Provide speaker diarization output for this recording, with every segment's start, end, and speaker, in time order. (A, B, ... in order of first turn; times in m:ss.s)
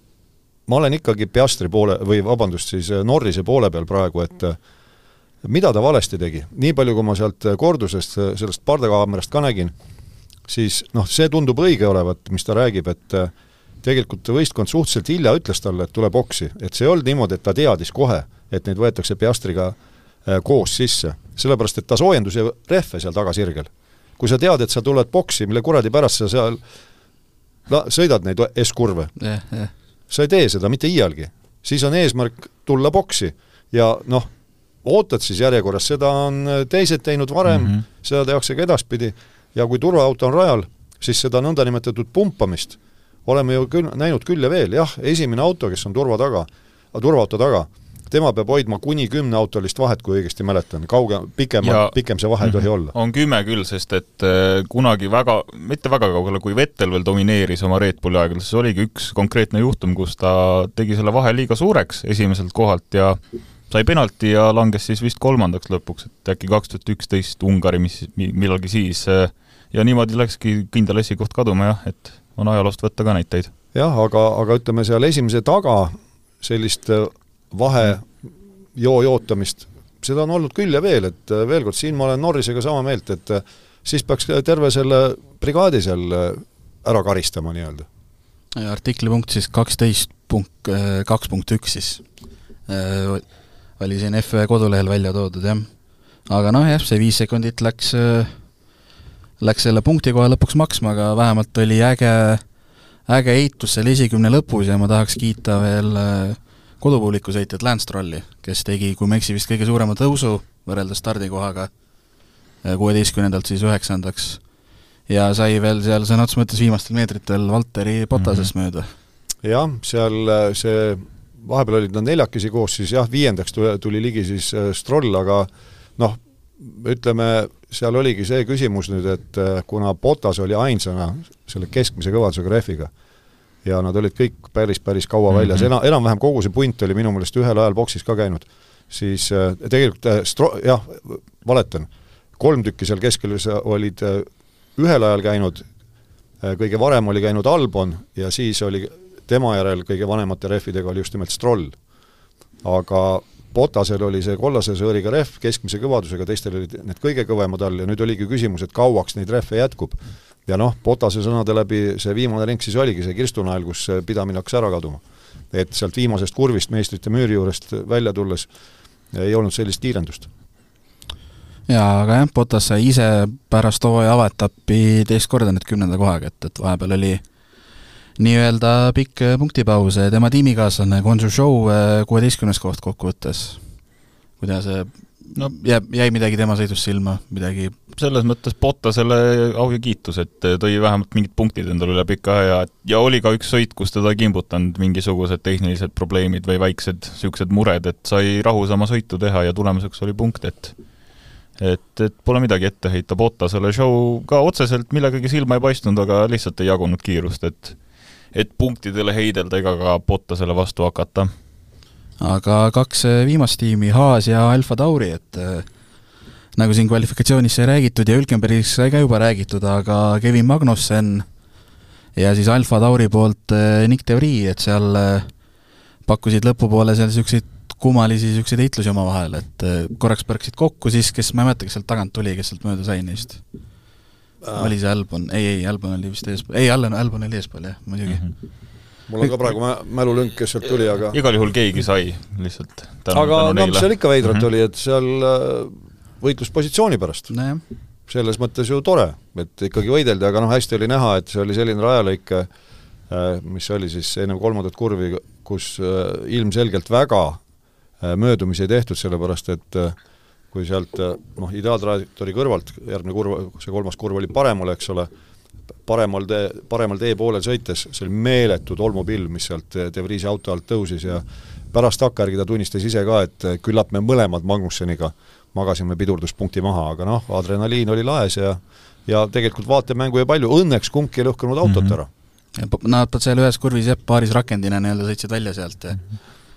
0:00.7-0:04.6 A
0:05.4-0:09.7 A
0:10.5-0:13.3 A
0:13.8-0:26.6 A
0:27.7-0:29.1 A
0:29.2-0:29.7 B
0:30.1-0:34.3 A
0:34.8-0:52.9 A
0:37.5-0:37.8 C
0:51.6-1:13.5 C
1:13.7-1:27.9 A
1:28.6-1:32.0 B
1:32.7-1:35.7 B
1:36.3-1:38.5 B
1:39.4-1:42.4 B
1:43.1-1:51.7 B
1:52.6-1:54.4 B
1:55.1-1:58.9 B
1:58.2-1:58.5 C
1:59.4-2:12.9 A
2:13.6-2:25.7 A
2:15.4-2:15.6 C
2:26.4-2:31.8 A
2:32.6-2:48.5 A
2:49.1-2:50.3 A
2:51.7-2:57.2 B
2:58.2-3:03.8 B
3:04.4-3:07.8 B
3:08.0-3:20.8 C
3:21.6-3:31.3 C
3:32.2-3:35.7 B
3:36.6-3:41.3 B
3:42.2-3:45.3 B
3:46.0-3:53.4 B
3:54.4-3:54.7 A
3:54.5-3:58.3 B
3:59.1-4:01.2 A
4:01.1-4:04.4 C
4:03.1-4:07.3 A
4:07.3-4:07.6 B
4:08.1-4:12.5 A
4:13.1-4:17.4 A
4:18.0-4:20.0 A
4:20.5-4:25.1 A
4:25.9-4:42.1 A
4:41.6-4:42.0 C
4:42.6-4:46.0 B